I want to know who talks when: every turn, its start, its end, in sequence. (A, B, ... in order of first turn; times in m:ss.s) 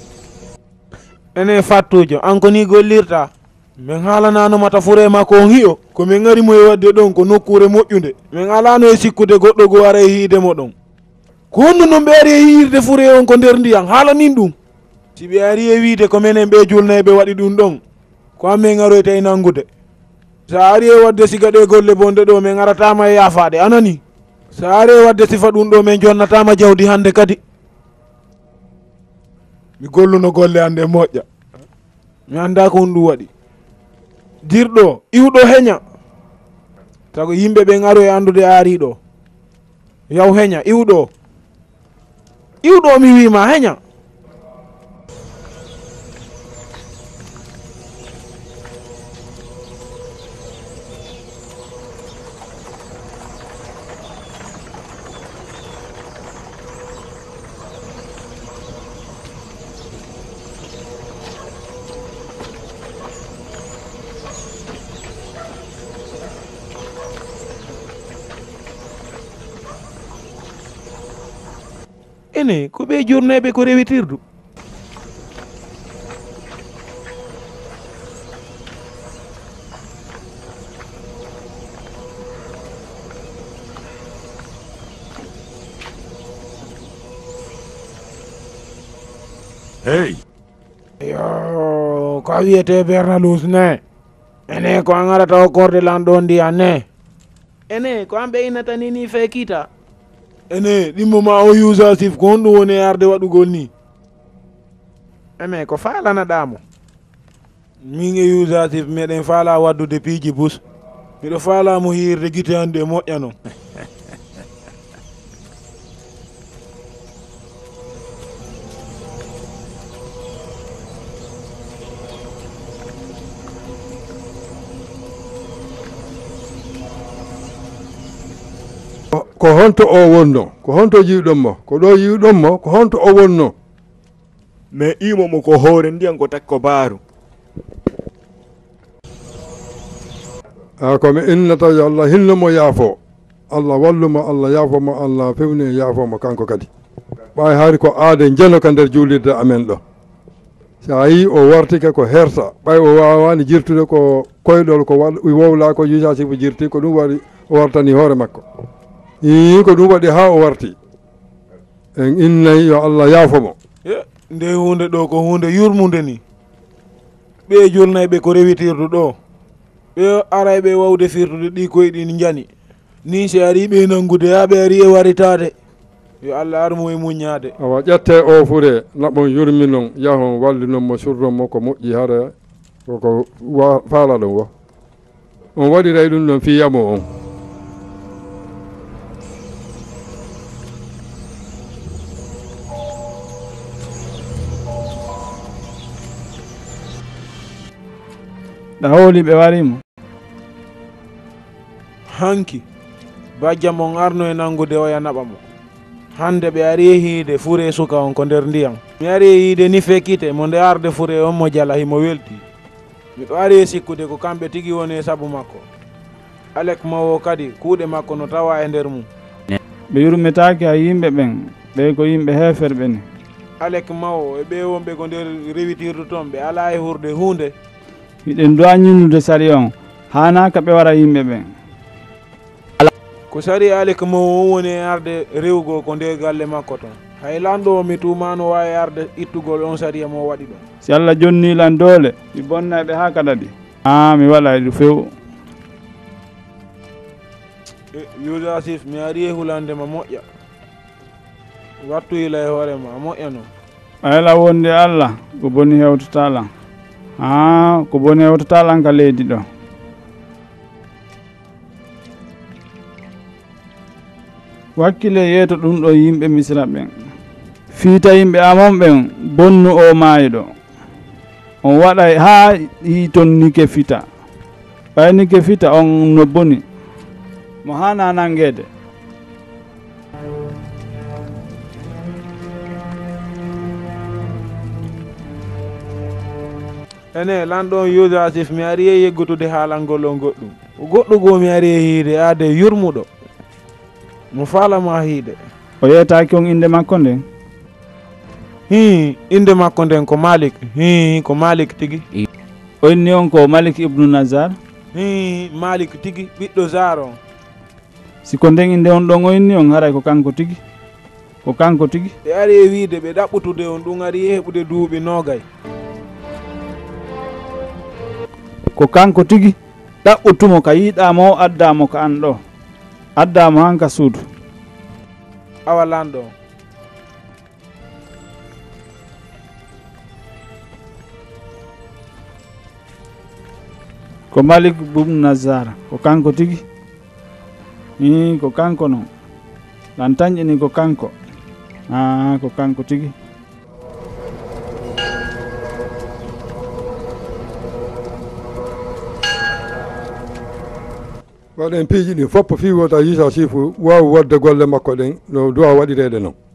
0:01.4-0:10.7 A
0:11.5-0:14.5 A
0:15.2-0:17.8 A
0:18.4-0:19.7 A
0:20.5-0:24.0 A
0:24.5-0:27.4 A
0:29.8-0:31.2 A
0:32.3-0:33.3 A
0:34.4-0:35.8 A
0:37.1-0:39.0 A
0:40.1-0:41.1 A
0:42.6-0:43.8 A
1:12.3-1:14.2 A
1:31.0-1:33.8 A
1:34.5-1:36.8 A
1:37.7-1:39.7 A
1:40.5-1:43.7 A
1:45.4-1:46.6 A
1:47.8-1:50.6 A
1:51.2-1:53.3 A
2:09.1-2:13.5 B
2:14.7-2:17.0 C
2:20.8-2:23.0 B
2:23.5-2:26.7 B
2:27.3-2:29.8 B
2:30.8-2:38.4 B
2:39.2-2:40.7 B
2:42.0-2:43.6 B
2:43.8-2:46.2 A
2:47.5-2:49.2 A
2:50.0-2:52.5 A
2:53.1-2:55.5 A
2:56.2-2:57.5 A
2:57.6-3:02.3 B
3:02.9-3:04.5 B
3:05.6-3:07.1 B
3:18.8-3:19.8 D
3:22.1-3:22.6 A
3:23.4-3:25.4 A
3:26.1-3:32.4 A
3:33.2-3:35.6 A
3:36.6-3:39.1 A
3:39.9-3:43.0 D
3:43.6-3:47.5 A
3:48.2-3:51.5 D
3:53.3-4:00.6 A
4:00.8-4:05.1 D
4:07.9-4:10.2 A
4:11.8-4:13.5 A
4:14.0-4:16.5 D
4:17.2-4:19.4 D
4:24.8-4:26.9 D
4:27.7-4:30.5 D
4:31.6-4:34.0 D
4:35.0-4:36.6 D
4:37.6-4:38.7 D
4:47.1-4:53.1 A
4:54.3-4:55.4 A
4:55.8-4:57.2 D
4:58.7-5:02.0 A
5:02.8-5:04.6 D
5:04.9-5:07.2 A
5:08.2-5:10.6 D
5:11.4-5:12.1 D
5:12.2-5:15.4 A
5:18.8-5:22.4 D
5:23.2-5:24.2 D
5:25.6-5:26.3 A
5:34.3-5:36.6 D
5:38.0-5:39.1 D
5:40.0-5:41.1 D
5:41.9-5:43.1 D
5:51.6-5:56.3 B